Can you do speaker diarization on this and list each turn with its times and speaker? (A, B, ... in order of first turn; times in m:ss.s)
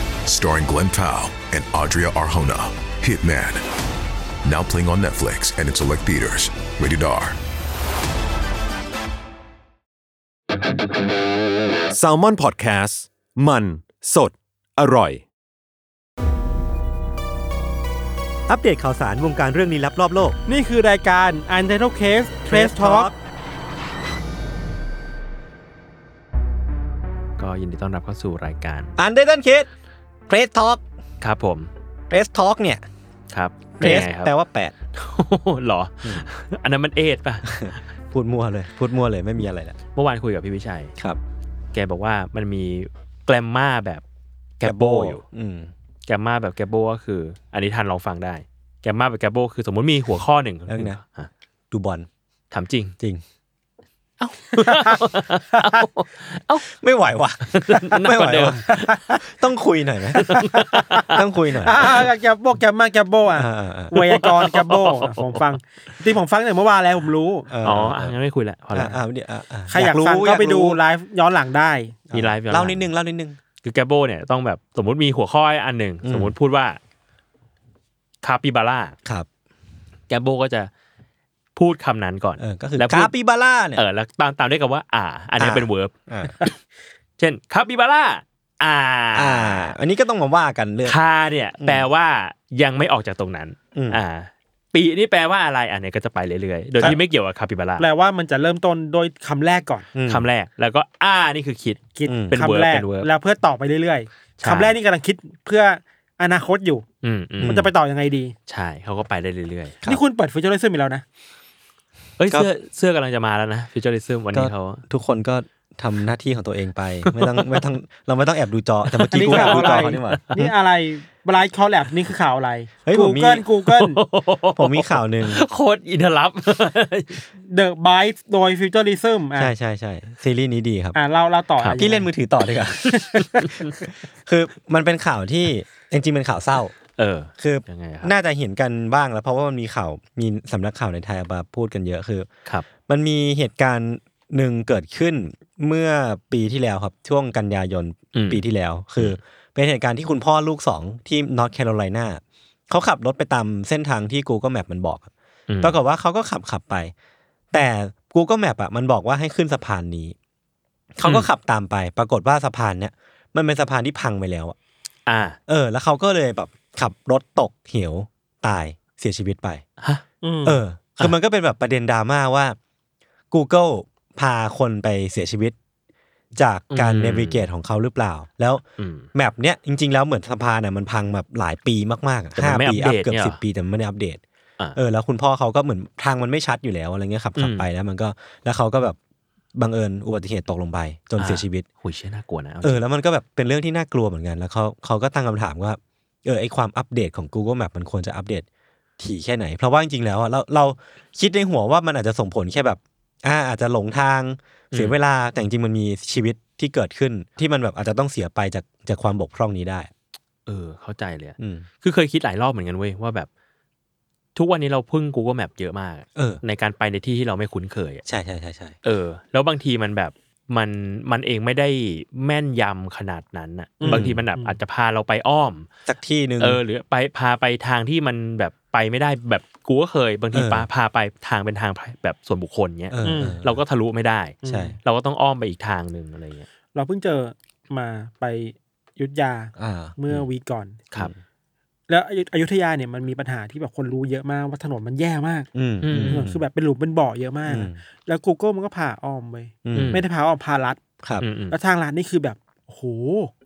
0:00.2-0:03.6 A
0:04.4-0:07.4 A
0:11.9-0:15.2 B
0:18.5-0:20.4 C
0:20.5-0:23.1 D
0:22.5-0:23.2 C
0:27.4-0:29.0 E
0:29.0-0:29.7 C
0:30.3-0:30.8 C
0:31.2-0:31.7 E
0:32.1-0:32.8 C
0:33.3-0:34.3 E
0:33.8-0:34.7 C
0:34.9-0:37.8 E
0:37.4-0:39.8 C
0:40.0-0:41.0 E
0:41.7-0:44.0 E
0:44.6-0:45.2 E
0:44.6-0:45.7 C
0:46.1-0:51.3 E
0:50.7-0:51.0 C
0:51.7-0:52.1 C
0:52.5-0:53.0 E
0:54.3-0:56.7 E
0:56.7-1:00.4 C
0:57.5-0:58.8 E
0:58.7-0:59.2 D
1:00.2-1:01.2 E
1:00.2-1:07.5 D
1:01.1-1:02.0 C
1:03.3-1:03.9 C
1:03.9-1:05.4 E
1:07.5-1:08.2 C
1:07.6-1:09.0 E
1:08.7-1:10.8 C
1:09.7-1:12.0 D
1:12.1-1:13.4 C
1:12.1-1:12.9 E
1:13.6-1:16.8 E
1:16.0-1:16.3 C
1:18.2-1:19.0 E
1:20.1-1:20.7 E
1:21.6-1:23.1 E
1:22.4-1:23.8 C
1:23.8-1:26.5 E
1:25.4-1:26.4 C
1:27.2-1:29.8 E
1:29.2-1:31.0 C
1:30.8-1:37.9 E
1:33.7-1:34.0 C
1:37.8-1:39.9 D
1:39.9-1:40.3 C
1:40.1-1:43.1 E
1:42.0-1:46.8 D
1:42.1-1:42.4 C
1:44.4-1:44.8 E
1:47.0-1:47.6 E
1:47.4-1:47.7 C
1:47.4-1:48.4 D
1:48.5-1:49.8 E
1:49.8-1:51.0 D
1:52.2-1:54.8 E
1:54.3-2:00.5 C
1:57.0-1:57.7 E
1:58.9-2:00.2 E
1:59.1-2:04.0 D
2:02.8-2:03.5 C
2:03.7-2:07.2 E
2:04.5-2:05.4 C
2:07.4-2:09.5 D
2:09.4-2:11.0 C
2:11.0-2:12.1 D
2:11.8-2:16.7 C
2:12.9-2:13.5 D
2:17.0-2:18.1 E
2:17.4-2:22.3 C
2:22.9-2:35.1 C
2:28.2-2:28.4 E
2:35.5-2:35.8 E
2:35.6-2:36.9 C
2:37.5-2:40.2 C
2:41.0-2:44.6 C
2:45.1-2:45.4 E
2:45.5-2:49.6 C
2:50.2-2:50.6 D
2:50.4-2:52.6 C
2:53.3-2:55.6 C
2:56.4-2:58.6 C
2:56.7-2:57.5 E
2:58.8-2:59.1 E
2:59.1-3:04.2 C
3:02.4-3:03.4 E
3:04.8-3:09.0 C
3:07.4-3:07.7 E
3:09.6-3:11.6 C
3:11.2-3:12.8 E
3:12.6-3:18.4 C
3:19.0-3:29.9 C
3:30.5-3:33.3 E
3:31.4-3:31.7 C
3:34.4-3:38.0 E
3:36.2-3:36.4 C
3:38.1-3:38.8 C
3:38.8-3:45.7 E
3:43.8-3:44.1 D
3:43.8-3:44.6 C
3:45.9-3:46.6 C
3:46.4-3:56.5 E
3:50.3-3:50.7 C
3:52.9-3:53.6 C
3:53.0-3:53.4 D
3:54.4-3:54.8 D
3:54.4-3:54.8 C
3:56.7-4:00.8 D
3:59.6-4:00.3 C
4:01.9-4:05.5 D
4:05.5-4:06.4 C
4:05.8-4:06.3 E
4:06.0-4:10.8 D
4:07.5-4:07.8 C
4:09.7-4:10.0 C
4:09.7-4:10.0 E
4:11.2-4:11.6 E
4:11.5-4:13.3 D